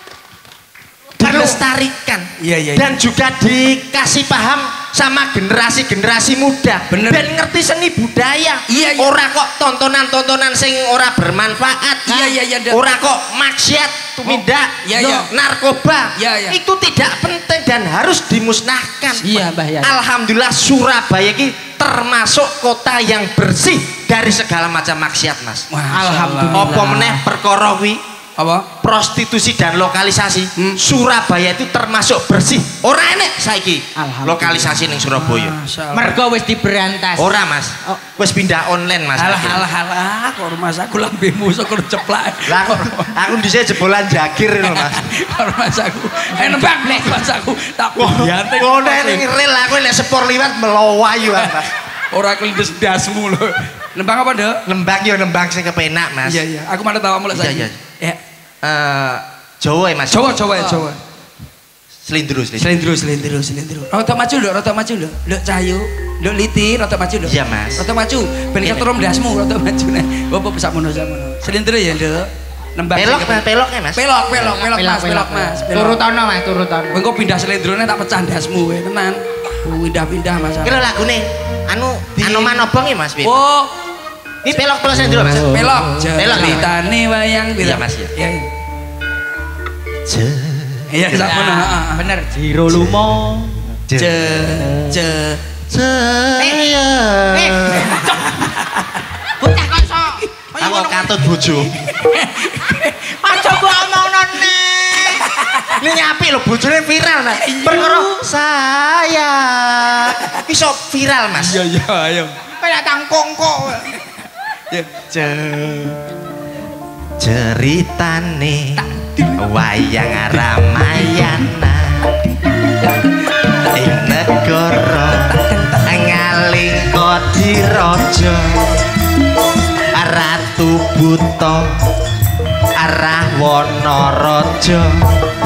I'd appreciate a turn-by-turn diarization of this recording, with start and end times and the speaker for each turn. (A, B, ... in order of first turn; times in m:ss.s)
0:01.2-0:19.3 A
0:01.2-0:01.6 B
0:02.4-0:02.9 C
0:06.9-0:07.3 C
0:08.7-0:09.1 C
0:12.1-0:12.8 C
0:14.3-0:15.3 C
0:16.2-0:16.6 C
0:19.2-0:19.9 B
0:19.8-0:25.6 A
0:25.7-0:26.8 C
0:25.9-0:27.2 B
0:26.5-0:28.0 A
0:28.4-0:28.7 C
0:28.8-0:35.5 A
0:34.0-0:34.9 B
0:35.2-0:36.1 C
0:35.9-0:38.0 B
0:37.2-0:39.6 A
0:39.1-0:43.2 C
0:42.4-0:45.1 A
0:44.6-0:49.2 C
0:46.3-0:47.3 B
0:48.0-0:51.7 A
0:51.3-0:54.6 C
0:54.6-0:56.4 A
0:56.2-0:58.2 C
0:57.3-0:57.8 A
0:58.6-1:00.7 A
1:00.1-1:01.0 C
1:02.0-1:02.7 A
1:02.6-1:13.4 C
1:07.2-1:07.8 A
1:12.9-1:14.0 A
1:13.9-1:16.0 C
1:14.3-1:17.0 B
1:16.9-1:20.8 C
1:20.6-1:23.4 A
1:22.2-1:22.6 C
1:23.2-1:23.7 C
1:24.4-1:26.7 A
1:25.5-1:28.4 C
1:27.6-1:28.1 A
1:30.0-1:31.4 A
1:30.9-1:32.0 C
1:31.1-1:33.6 B
1:32.7-1:33.1 A
1:33.9-1:35.0 A
1:34.0-1:35.4 C
1:35.7-1:38.0 A
1:36.4-1:36.7 B
1:37.3-1:38.3 B
1:37.8-1:38.9 C
1:39.4-1:41.0 B
1:40.6-1:41.7 A
1:41.8-1:43.6 C
1:43.2-1:45.3 B
1:45.2-1:45.8 C
1:45.8-1:51.6 A
1:47.4-1:47.9 C
1:47.7-1:48.2 B
1:51.4-1:52.3 C
1:52.6-1:53.9 B
1:54.7-1:56.0 C
1:57.2-1:58.8 A
1:58.8-1:59.4 C
1:59.4-2:02.2 A
2:02.8-2:04.2 C
2:03.7-2:08.8 A
2:05.2-2:05.9 C
2:09.9-2:11.8 A
2:12.8-2:15.1 A